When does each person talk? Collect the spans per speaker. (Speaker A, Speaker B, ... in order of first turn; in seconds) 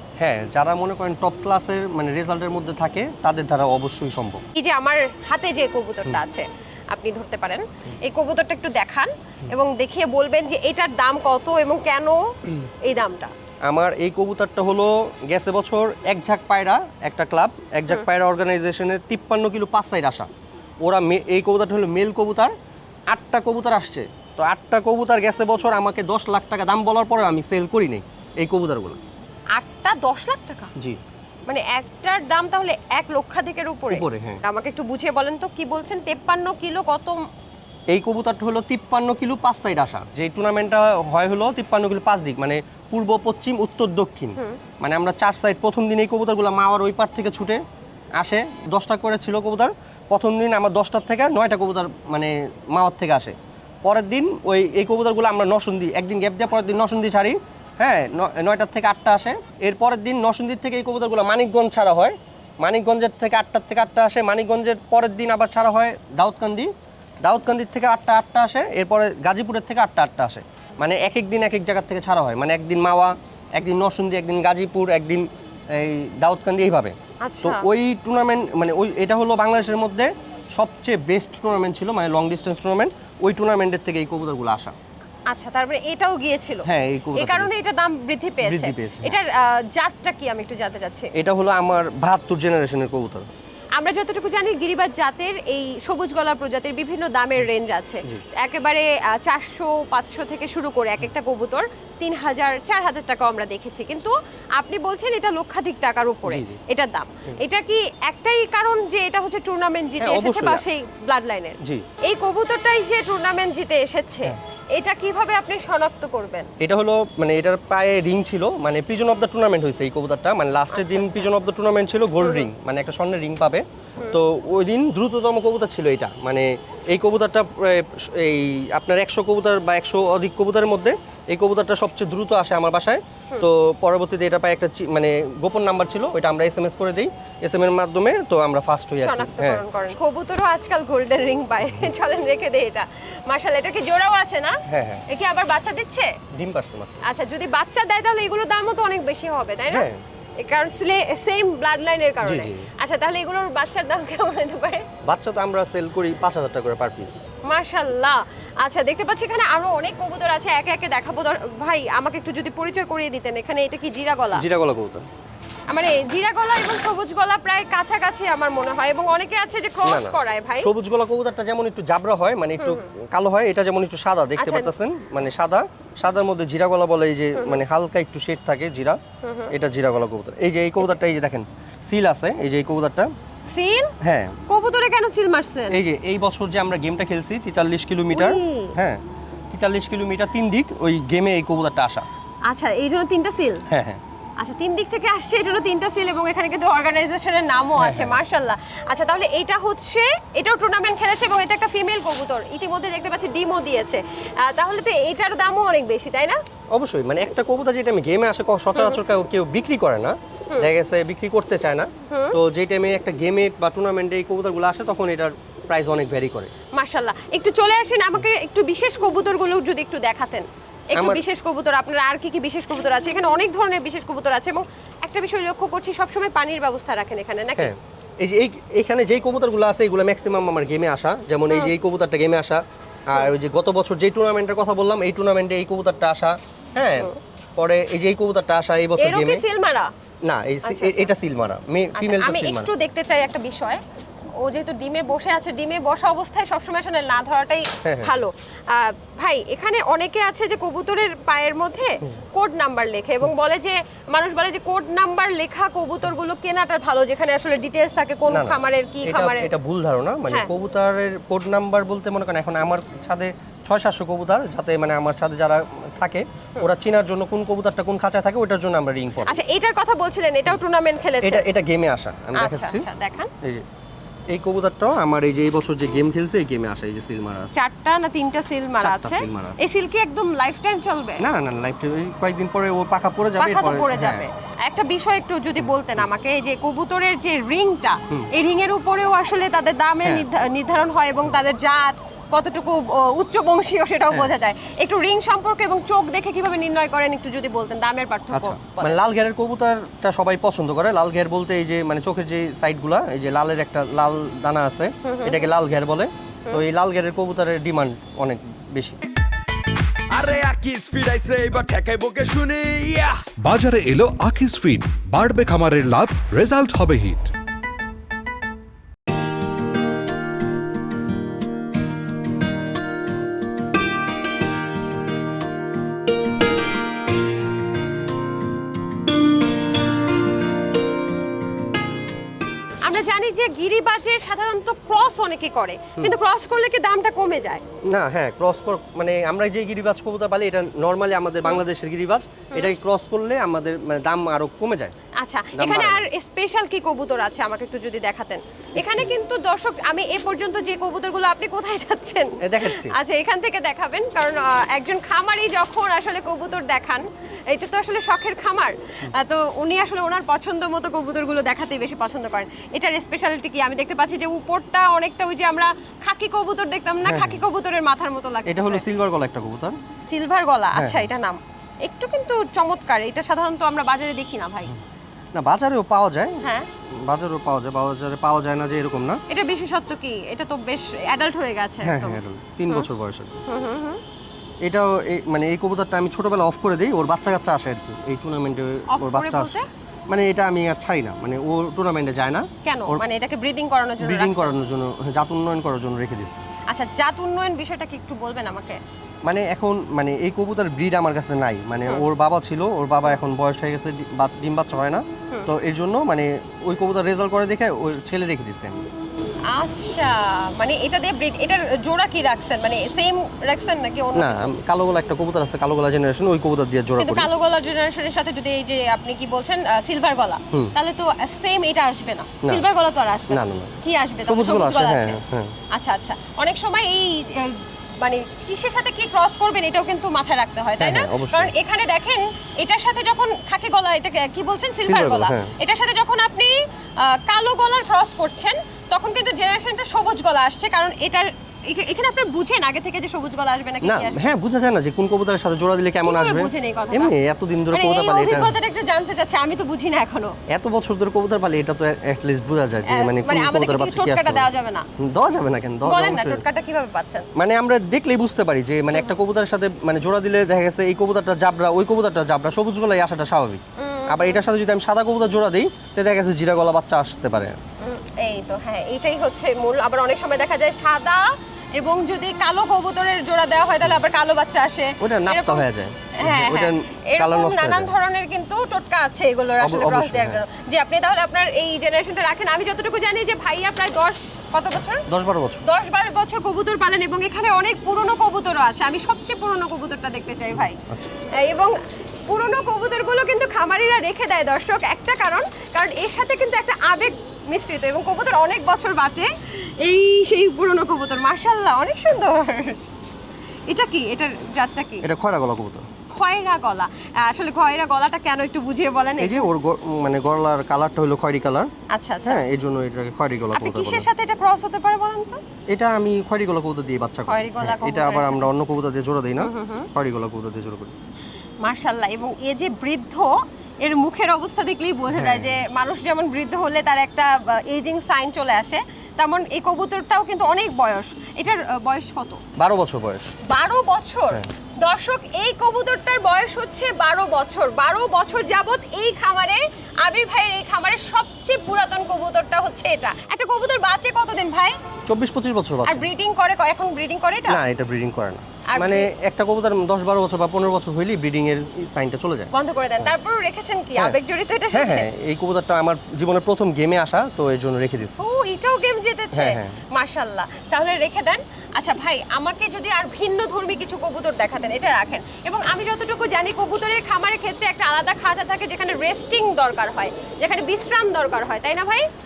Speaker A: 0.2-4.4, 13.7-20.3, 20.8-22.5, 23.1-29.0, 33.9-34.4, 37.9-47.6, 48.2-66.7, 67.2-84.8, 86.7-87.5, 88.4-89.2, 91.2-93.3, 106.2-106.6, 110.0-110.7, 116.6-139.6, 144.7-145.1, 146.3-147.0, 149.7-150.0, 152.2-152.7, 155.0-157.2, 164.3-165.1, 169.8-179.0, 179.5-183.1, 184.0-184.4, 185.7-192.1, 193.7-194.0, 197.8-198.2, 206.7-216.5, 220.9-221.2, 227.6-239.4, 240.2-242.7, 247.8-248.2, 258.3-269.4, 271.2-272.9, 274.3-277.5, 278.8-279.6, 281.2-284.3, 285.6-286.1, 298.3-309.0, 337.9-344.9, 345.5-346.1, 348.8-349.1, 352.4-353.0, 367.0-367.4, 368.5-369.8, 370.8-371.1, 375.4-379.2, 381.8-383.3, 384.6-389.6, 390.1-393.0, 394.0-396.4, 399.2-408.8, 414.1-417.3, 423.3-425.5, 430.8-431.5, 434.8-435.5, 443.8-448.6, 450.5-456.4, 457.4-467.6, 475.0-478.0, 479.6-480.4, 485.1-485.6, 490.6-491.1, 505.0-505.9, 509.2-511.7, 512.2-514.1, 515.7-521.0, 525.1-525.6, 532.6-533.3, 545.1-546.1, 547.5-552.5, 554.7-558.2, 559.3-559.8
Speaker B: 4.6-12.2, 12.8-13.3, 29.6-30.7, 31.5-37.2, 77.2-77.7, 85.3-91.1, 93.8-116.5, 120.7-121.3, 122.2-122.5, 139.0-146.1, 147.0-149.9, 150.4-154.9, 157.5-164.4, 165.7-170.7, 172.6-172.9, 174.4-174.7, 177.4-177.6, 179.2-179.5, 183.5-183.9, 184.5-185.8, 188.1-188.8, 192.5-193.6, 194.4-206.4, 208.8-209.0, 212.1-212.4, 216.8-227.7, 239.0-239.9, 240.6-241.1, 242.0-243.8, 244.4-259.5, 269.2-271.4, 272.4-273.3, 277.5-281.3, 283.4-299.0, 305.0-305.4, 332.9-337.6, 345.2-368.8, 370.1-374.7, 379.3-382.9, 383.5-384.0, 388.9-389.7, 392.6-394.6, 396.7-398.8, 409.5-414.5, 417.0-425.2, 425.7-444.2, 446.0-447.1, 447.7-450.3, 452.9-454.9, 455.8-457.3, 463.8-464.4, 467.8-471.2, 471.8-475.7, 476.2-485.0, 485.6-490.8, 491.4-491.8, 492.3-502.8, 503.7-505.1, 506.1-509.5, 511.9-512.5, 513.5-515.4, 517.3-518.5, 519.4-519.9, 521.6-532.4, 533.5-544.8, 545.9-547.6, 548.7-549.1, 552.5-555.1, 558.2-572.1
Speaker C: 310.1-313.2
Speaker D: 313.4-317.3